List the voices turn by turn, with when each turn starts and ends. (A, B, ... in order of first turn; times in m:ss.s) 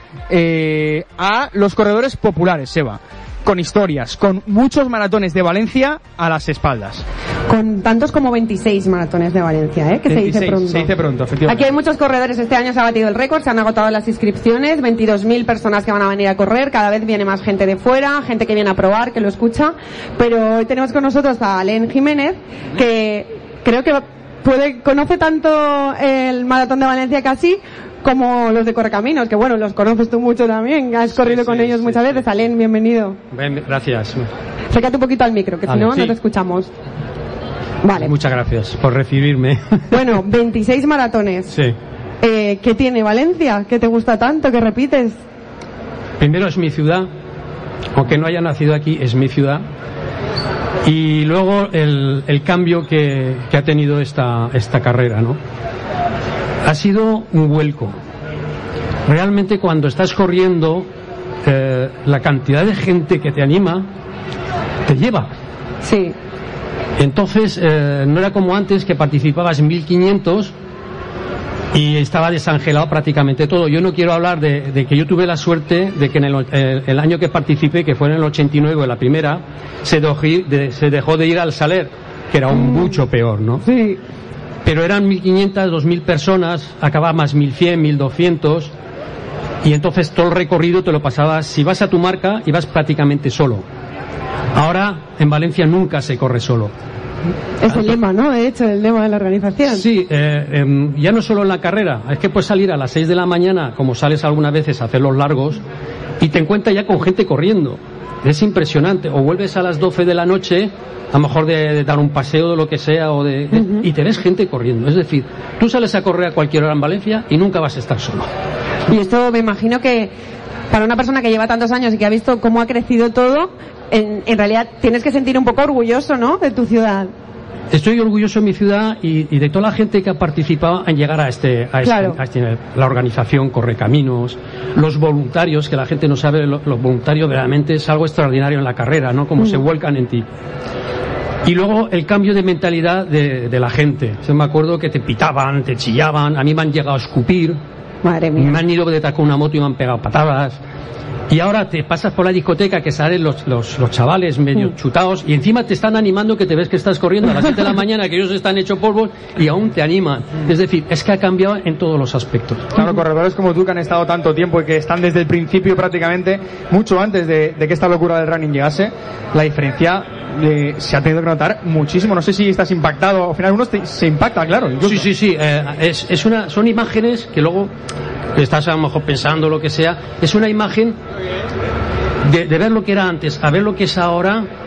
0:00.3-0:07.0 A
0:07.5-0:10.9 B
0:10.1-0:11.7 A
0:11.4-0:33.2 B
0:31.1-0:32.2 C
0:33.3-0:34.3 C
0:34.7-0:36.7 B
0:35.7-0:36.1 C
0:37.8-0:38.1 B
0:38.0-0:40.1 C
0:39.9-0:41.5 B
0:41.5-0:41.8 C
0:42.2-0:45.2 B
0:46.2-0:47.1 C
0:47.9-0:49.6 C
0:50.8-0:55.4 C
0:56.6-0:58.0 C
0:59.1-1:00.9 C
1:01.4-1:03.9 C
1:04.9-1:05.3 C
1:05.8-1:06.2 B
1:07.0-1:10.5 C
1:11.7-1:23.6 C
1:22.5-1:23.0 B
1:23.6-1:24.0 B
1:24.6-1:28.7 C
1:29.6-1:33.6 C
1:34.5-1:36.7 C
1:37.6-1:39.8 B
1:37.6-1:38.0 C
1:39.7-1:45.6 C
1:46.2-1:58.3 C
1:53.5-1:53.8 B
1:58.9-2:00.1 B
2:00.7-2:07.1 B
2:07.7-2:20.2 C
2:11.8-2:12.2 B
2:21.4-2:27.6 C
2:28.0-2:28.6 B
2:28.4-2:30.6 C
2:31.3-2:42.8 C
2:42.8-2:55.1 A
2:54.8-2:57.7 C
2:58.4-3:01.0 C
3:02.2-3:04.4 C